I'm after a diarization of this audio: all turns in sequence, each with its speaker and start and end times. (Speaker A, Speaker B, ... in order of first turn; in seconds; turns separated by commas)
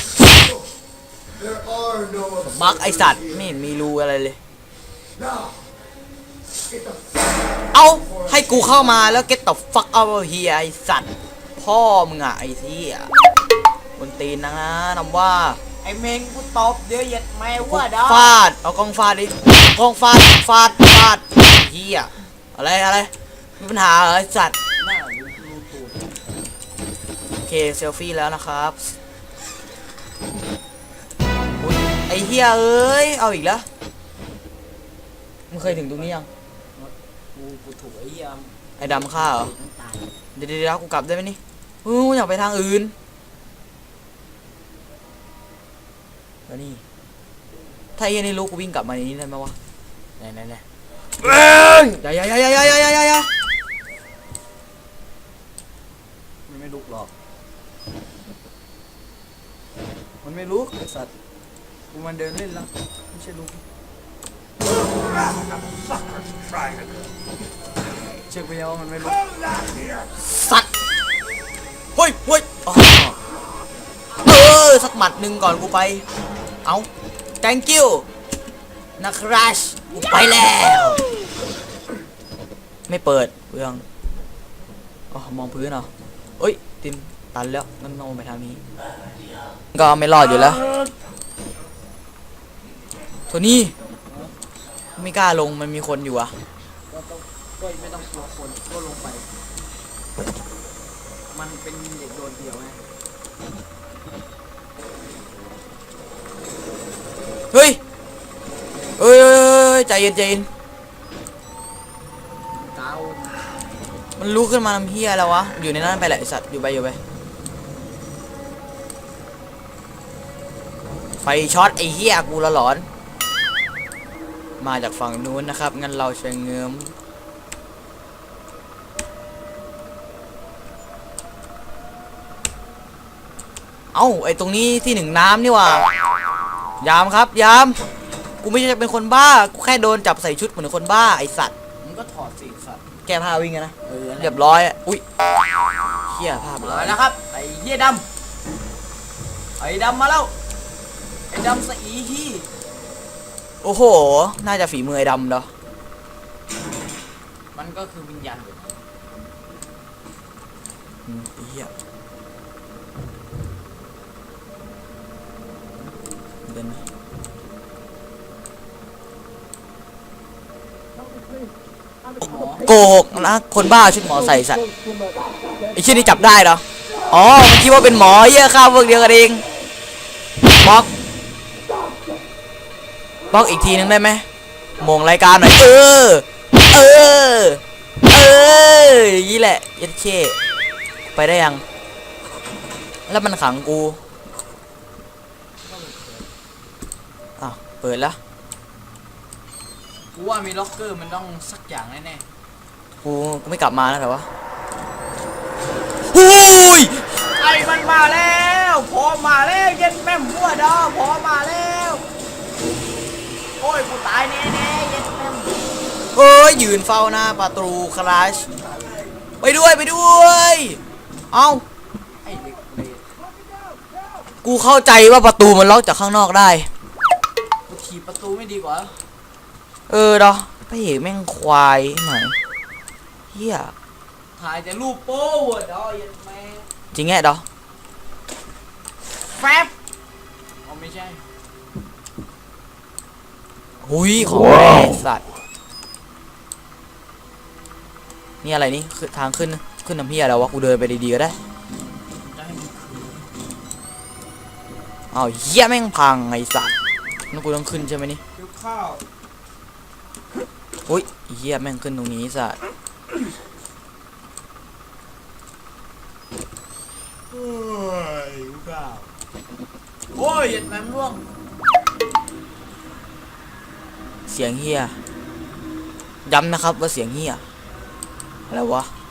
Speaker A: 1.4-2.6, Speaker B: 2.4-4.4, Speaker A: 5.2-5.5, Speaker A: 6.7-7.2, Speaker B: 7.7-13.1, Speaker B: 14.0-15.6, Speaker C: 15.8-18.4, Speaker B: 17.6-24.6, Speaker C: 24.8-26.3, Speaker B: 27.4-28.9, Speaker B: 31.6-33.7, Speaker B: 35.5-36.3, Speaker C: 35.6-36.1, Speaker C: 36.8-40.2, Speaker B: 38.8-39.5, Speaker B: 40.3-42.9, Speaker B: 46.5-46.8, Speaker B: 48.0-49.5, Speaker C: 50.2-50.6, Speaker B: 51.2-53.3, Speaker C: 56.5-57.1, Speaker C: 60.2-61.1, Speaker C: 61.9-63.6, Speaker C: 68.3-69.3, Speaker B: 70.1-70.7, Speaker B: 72.0-73.2, Speaker B: 74.2-76.0, Speaker B: 77.4-78.0, Speaker B: 79.0-81.0, Speaker B: 82.9-83.8, Speaker B: 85.1-88.6, Speaker B: 89.7-90.7, Speaker B: 93.3-93.7, Speaker C: 94.0-94.3, Speaker B: 95.0-96.3, Speaker C: 96.9-99.3, Speaker C: 101.3-102.8, Speaker B: 107.5-107.8, Speaker B: 109.0-110.5, Speaker C: 112.5-113.5, Speaker B: 114.2-117.0, Speaker B: 121.2-122.9, Speaker B: 124.6-126.9, Speaker B: 133.9-135.9, Speaker B: 136.8-137.8, Speaker B: 138.4-141.5, Speaker C: 141.8-142.8, Speaker B: 143.1-145.0, Speaker C: 143.8-144.4, Speaker B: 146.1-147.0, Speaker C: 146.6-148.0, Speaker C: 149.6-150.3, Speaker C: 151.3-152.5, Speaker B: 153.6-155.5, Speaker C: 157.5-158.8, Speaker B: 161.1-161.7, Speaker B: 166.4-166.8, Speaker C: 172.2-172.7, Speaker B: 172.2-174.7, Speaker B: 175.7-179.4, Speaker B: 180.6-180.9, Speaker B: 183.3-184.2, Speaker B: 184.8-190.3, Speaker B: 191.1-191.6, Speaker B: 193.1-194.0, Speaker C: 195.6-196.3, Speaker B: 197.4-198.2, Speaker C: 200.1-202.2, Speaker B: 203.0-204.3, Speaker B: 206.1-207.1, Speaker C: 207.2-212.0, Speaker C: 213.6-215.5, Speaker B: 216.1-218.5, Speaker C: 218.6-219.1, Speaker B: 219.4-220.8, Speaker B: 221.3-221.6, Speaker C: 222.2-223.0, Speaker B: 224.4-226.7, Speaker C: 227.7-229.0, Speaker B: 229.9-232.3, Speaker B: 233.3-233.7, Speaker C: 234.3-236.7, Speaker B: 236.9-237.4, Speaker C: 239.0-239.7, Speaker C: 240.6-241.2, Speaker B: 243.8-245.2, Speaker B: 248.4-251.4, Speaker C: 252.3-253.3, Speaker B: 255.1-256.7, Speaker B: 257.3-258.2, Speaker C: 258.3-259.0, Speaker B: 260.9-262.6, Speaker C: 267.3-269.1, Speaker C: 270.1-271.2, Speaker B: 274.3-275.0, Speaker B: 276.2-277.4, Speaker B: 278.5-278.9